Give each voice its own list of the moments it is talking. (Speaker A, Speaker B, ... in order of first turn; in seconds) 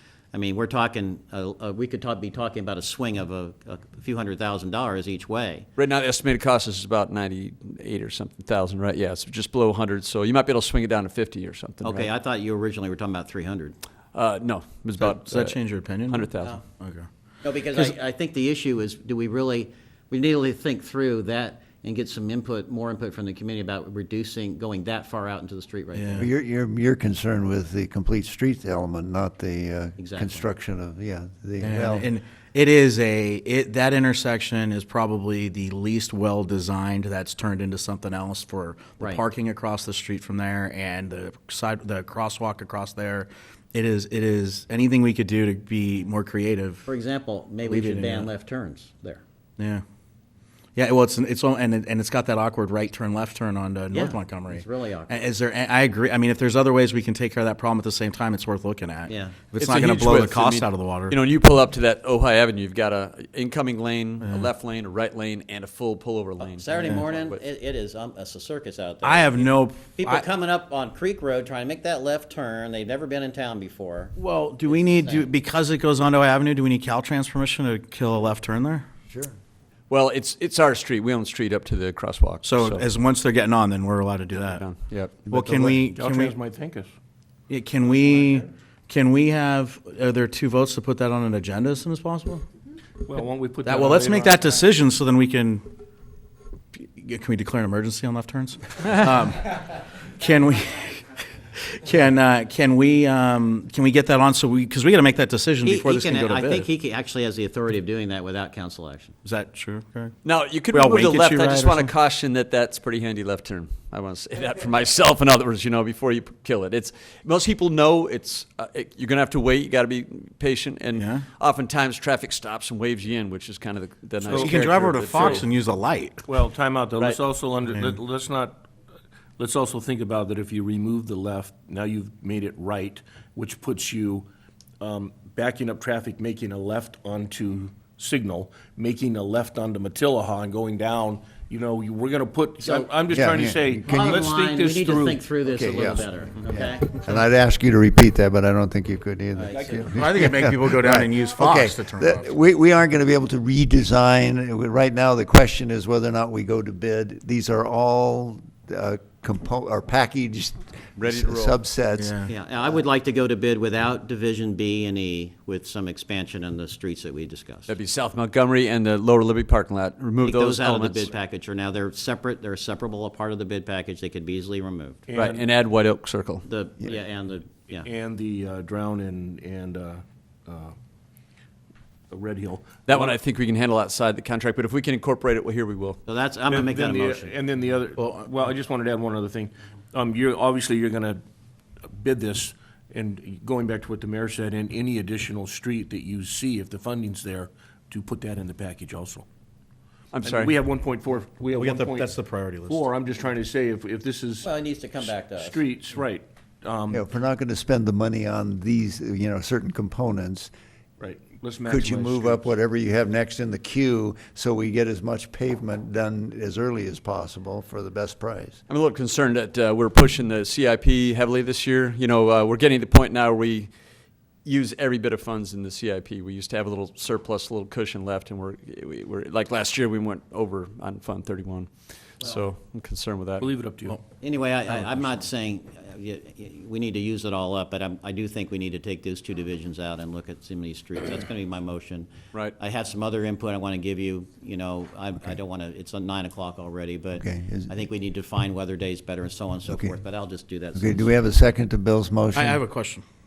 Speaker A: 0.3-5.7, 11.8-13.8, 17.4-26.3, 30.0-30.5, 46.8-49.2, 53.9-55.2, 59.1-59.4, 66.4-75.3, 105.6-109.2, 142.6-142.9, 143.9-146.9, 149.3-150.0, 162.2-167.7, 170.2-175.0, 176.4-177.8, 186.1-187.3, 204.4-205.6, 234.2-251.1
Speaker B: 5.8-12.1, 14.1-15.6, 16.1-16.6, 59.6-67.4, 79.9-82.8, 84.3-85.7, 110.2-125.5, 161.0-161.6, 167.7-171.1, 175.1-176.4, 182.8-186.0, 200.1-200.5, 218.7-223.7, 224.4-233.5
Speaker C: 15.0-17.1, 25.9-26.3, 31.6-46.8, 47.7-48.3, 49.6-49.8, 50.8-61.2, 64.2-64.5, 69.0-70.2, 74.2-78.8, 82.4-84.6, 85.3-86.3, 87.5-92.4, 93.6-95.7, 96.7-99.6, 100.2-106.7, 109.2-110.1, 110.7-111.9, 120.9-121.2, 124.3-126.2, 149.9-152.3, 162.0-162.3, 201.5-202.8, 252.3-253.0
Speaker D: 26.2-32.1, 79.1-79.3, 143.1-144.2, 145.4-162.2, 206.9-210.5, 211.7-218.6, 247.1-247.7, 249.7-249.9, 250.7-252.6
Speaker E: 85.7-86.9, 93.0-94.5, 124.2-125.4, 126.2-128.7, 129.4-134.3, 134.8-145.3, 149.5-149.9, 175.1-175.4, 177.7-180.7, 182.1-183.2, 186.5-191.2, 191.8-199.3, 200.2-202.1, 202.7-204.5, 205.4-207.0, 211.0-212.5, 233.4-234.0